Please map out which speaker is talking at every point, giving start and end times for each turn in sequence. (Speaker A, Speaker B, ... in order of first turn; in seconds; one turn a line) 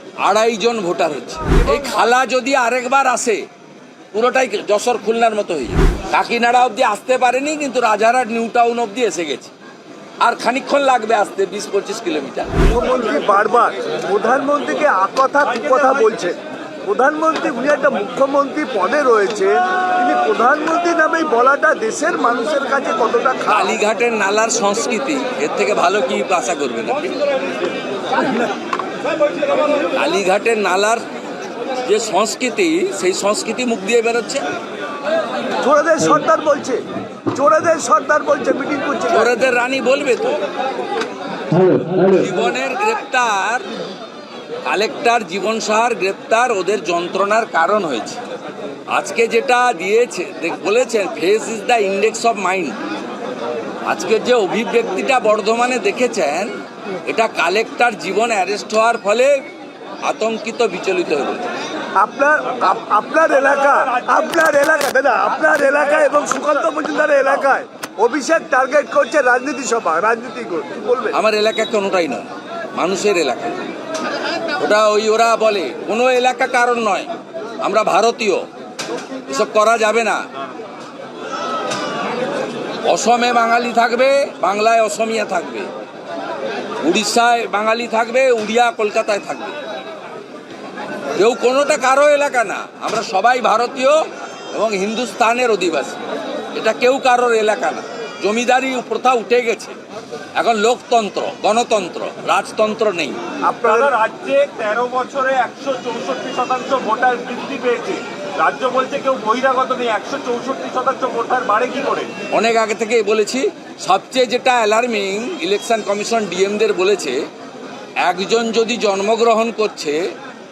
Speaker A: 0.2-3.4
Speaker A: 4.1-9.5
Speaker A: 10.2-12.5
Speaker B: 12.7-23.8
Speaker A: 23.5-27.1
Speaker A: 29.9-31.0
Speaker A: 31.8-34.4
Speaker B: 35.6-39.3
Speaker A: 39.1-40.4
Speaker A: 42.0-43.7
Speaker A: 44.6-48.2
Speaker A: 48.9-52.8
Speaker A: 53.9-56.5
Speaker A: 57.0-59.4
Speaker A: 60.0-61.5
Speaker B: 62.0-71.2
Speaker A: 71.1-73.6
Speaker A: 74.6-77.1
Speaker A: 77.6-78.4
Speaker A: 79.2-80.2
Speaker A: 82.8-85.7
Speaker A: 86.8-89.5
Speaker A: 91.2-94.0
Speaker A: 94.5-96.0
Speaker A: 96.5-99.8
Speaker A: 100.4-103.2
Speaker B: 103.5-103.9
Speaker C: 103.7-112.1
Speaker A: 112.3-117.2
Speaker A: 118.0-120.0